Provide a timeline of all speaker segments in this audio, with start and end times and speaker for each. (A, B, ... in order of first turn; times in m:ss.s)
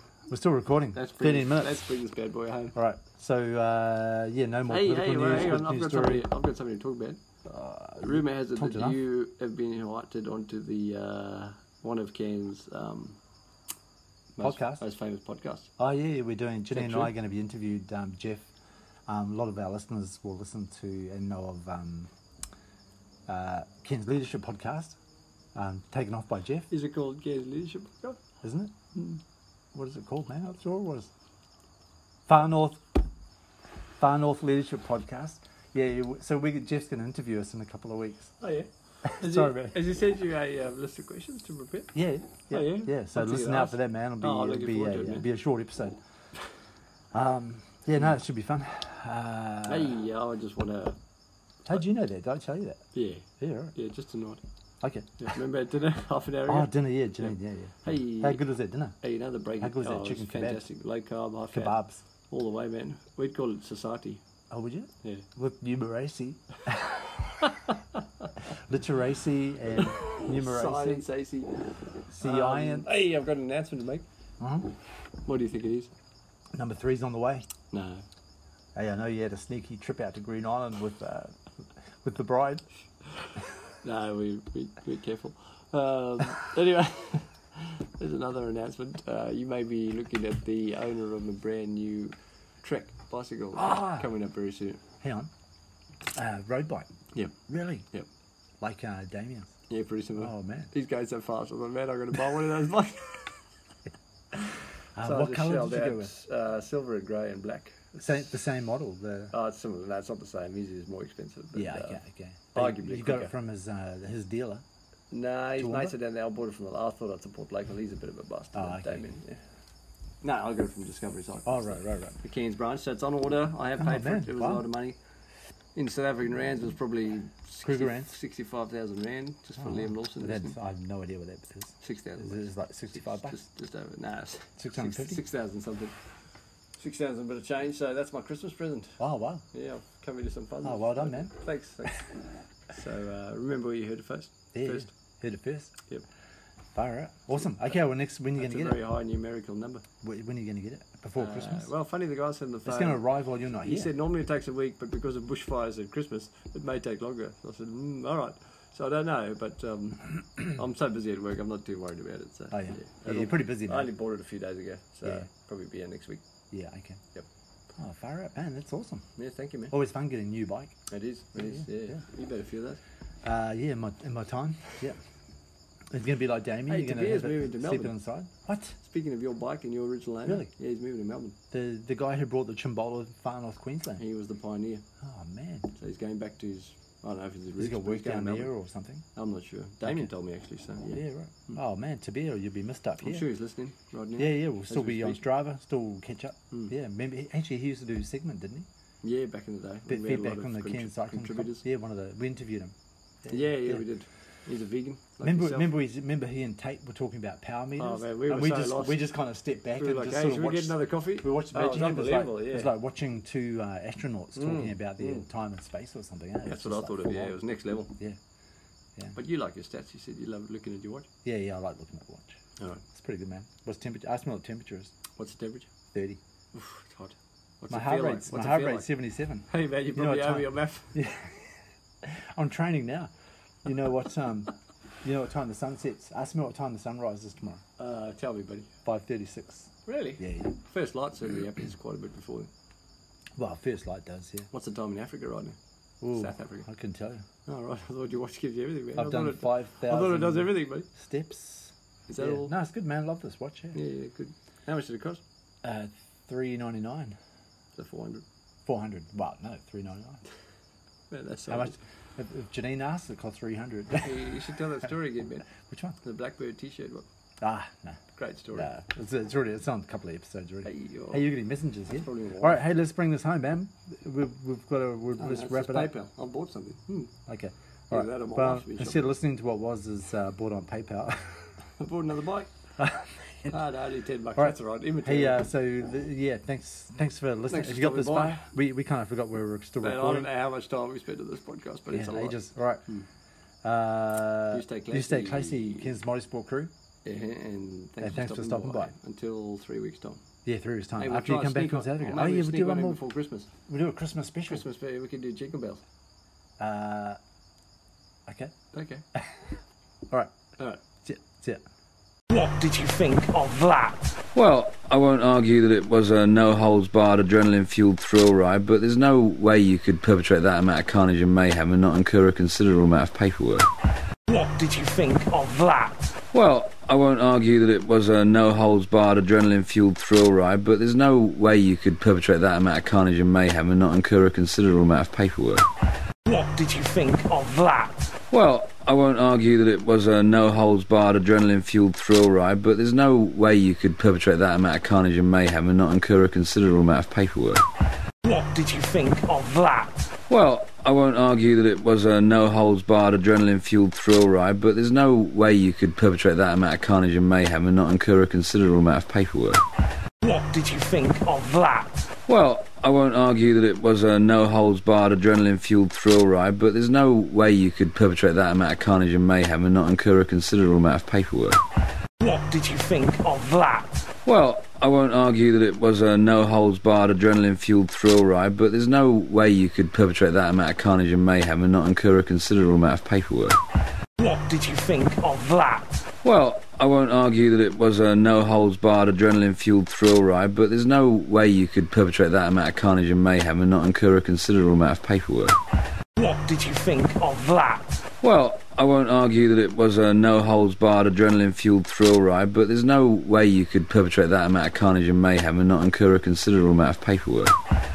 0:00.3-0:01.9 A
0:00.9-0:02.8 B
0:02.7-0:06.3 A
0:04.7-0:07.2 B
0:07.4-0:09.0 A
0:08.0-0:13.2 B
0:14.4-0:15.7 B
0:14.4-0:14.8 A
0:15.8-0:18.5 A
0:16.7-0:17.1 B
0:19.1-0:22.1 A
0:23.3-0:25.0 A
0:25.5-0:26.7 A
0:26.7-0:28.2 B
0:28.4-0:28.7 A
0:29.7-0:31.1 A
0:32.3-0:32.9 A
0:34.0-0:38.3 A
0:38.4-0:41.9 B
0:39.0-0:39.8 A
0:41.9-0:46.0 A
0:42.5-0:45.3 B
0:47.1-0:49.9 A
0:49.7-0:51.0 B
0:51.6-0:52.8 A
0:52.9-0:54.4 B
0:53.4-0:53.7 A
0:54.8-0:55.3 A
0:55.2-0:58.4 B
0:56.5-0:59.0 A
0:59.0-1:01.8 B
0:59.6-1:00.6 A
1:01.5-1:02.0 A
1:02.3-1:04.2 B
1:04.5-1:07.5 A
1:08.7-1:11.0 A
1:09.8-1:14.0 B
1:12.1-1:12.9 A
1:14.4-1:14.7 A
1:15.2-1:15.9 B
1:16.5-1:17.5 A
1:17.7-1:18.0 B
1:18.7-1:21.4 A
1:22.0-1:22.6 A
1:23.8-1:34.8 B
1:33.6-1:34.1 A
1:35.0-1:35.3 A
1:36.1-1:36.9 A
1:37.5-1:37.8 A
1:38.6-1:39.5 A
1:39.7-1:43.4 B
1:40.2-1:40.7 A
1:45.0-1:46.1 A
1:45.0-1:48.2 B
1:48.0-1:49.3 A
1:49.3-1:52.0 B
1:51.5-1:54.6 A
1:52.5-1:53.3 B
1:55.1-1:59.4 B
1:55.6-1:55.9 A
1:58.5-1:59.1 A
2:00.2-2:05.0 B
2:01.4-2:02.2 A
2:03.8-2:04.7 A
2:05.7-2:10.6 B
2:07.6-2:08.2 A
2:09.6-2:13.4 A
2:11.8-2:15.9 B
2:14.6-2:15.2 A
2:16.8-2:19.0 B
2:19.0-2:19.4 A
2:19.5-2:24.9 B
2:20.6-2:21.3 A
2:24.5-2:25.7 A
2:26.7-2:28.8 A
2:28.4-2:29.8 B
2:30.0-2:31.7 A
2:31.2-2:33.0 B
2:32.6-2:33.9 A
2:33.6-2:46.2 B
2:42.5-2:43.9 A
2:46.5-2:47.0 A
2:47.8-2:49.0 A
2:49.2-2:49.8 B
2:49.7-2:50.8 A
2:50.9-2:52.8 B
2:51.4-2:52.0 A
2:53.2-2:55.0 A
2:55.9-2:58.8 A
2:56.7-2:57.9 B
2:58.8-3:01.4 B
3:01.5-3:04.0 A
3:04.0-3:04.8 B
3:05.0-3:05.7 A
3:05.8-3:08.5 B
3:07.6-3:09.0 A
3:09.1-3:11.6 B
3:10.9-3:13.3 A
3:13.0-3:15.2 B
3:14.2-3:18.7 A
3:19.0-3:21.6 B
3:19.9-3:22.7 A
3:23.2-3:23.8 A
3:23.3-3:25.7 B
3:25.2-3:38.2 A
3:27.8-3:29.0 B
3:29.8-3:32.7 B
3:34.3-3:35.3 B
3:36.4-3:37.9 B
3:39.1-3:41.1 B
3:41.2-3:44.9 A
3:45.2-3:45.7 B
3:45.9-3:46.2 A
3:46.5-3:48.9 B
3:47.7-3:53.1 A
3:49.5-3:50.9 B
3:53.6-3:57.6 A
3:57.8-3:58.7 B
3:58.8-4:00.5 A
3:59.8-4:02.5 B
4:03.4-4:04.5 A
4:04.5-4:05.6 B
4:06.0-4:07.2 A
4:06.1-4:06.7 B
4:07.4-4:10.9 B
4:08.9-4:13.8 A
4:12.1-4:12.5 B
4:13.7-4:15.2 B
4:15.6-4:17.2 A
4:17.8-4:18.2 B
4:18.6-4:20.2 A
4:21.1-4:21.8 B
4:21.5-4:24.3 A
4:24.0-4:25.5 B
4:25.6-4:26.0 A
4:26.0-4:27.0 B
4:27.4-4:28.0 A
4:28.1-4:28.7 B
4:28.5-4:35.9 A
4:30.6-4:31.3 B
4:31.9-4:32.6 B
4:35.2-4:37.1 B
4:37.3-4:41.5 A
4:37.9-4:39.1 B
4:41.8-4:42.5 B
4:42.8-4:43.6 A
4:43.5-4:45.4 B
4:44.4-4:50.3 A
4:47.5-4:48.5 B
4:49.8-4:53.0 B
4:51.9-4:52.8 A
4:53.6-4:56.7 A
4:54.5-4:55.9 B
4:57.0-5:00.2 B
4:58.0-4:58.9 A
5:00.4-5:03.0 A
5:01.0-5:03.5 B
5:03.7-5:04.6 A
5:04.5-5:05.8 B
5:06.6-5:07.2 A
5:08.3-5:08.6 A
5:08.7-5:09.0 B
5:10.1-5:10.3 A
5:11.0-5:11.6 A
5:12.3-5:14.1 C
5:14.3-5:23.7 D
5:24.3-5:26.0 C
5:26.3-5:35.7 D
5:36.2-5:38.0 C
5:38.3-5:47.6 D
5:48.2-5:50.0 C
5:50.3-5:59.6 D
6:00.2-6:02.0 C
6:02.3-6:11.6 D
6:12.2-6:14.0 C
6:14.2-6:23.6 D
6:24.2-6:25.9 C
6:26.2-6:35.6 D
6:36.2-6:38.0 C
6:38.2-6:47.6 D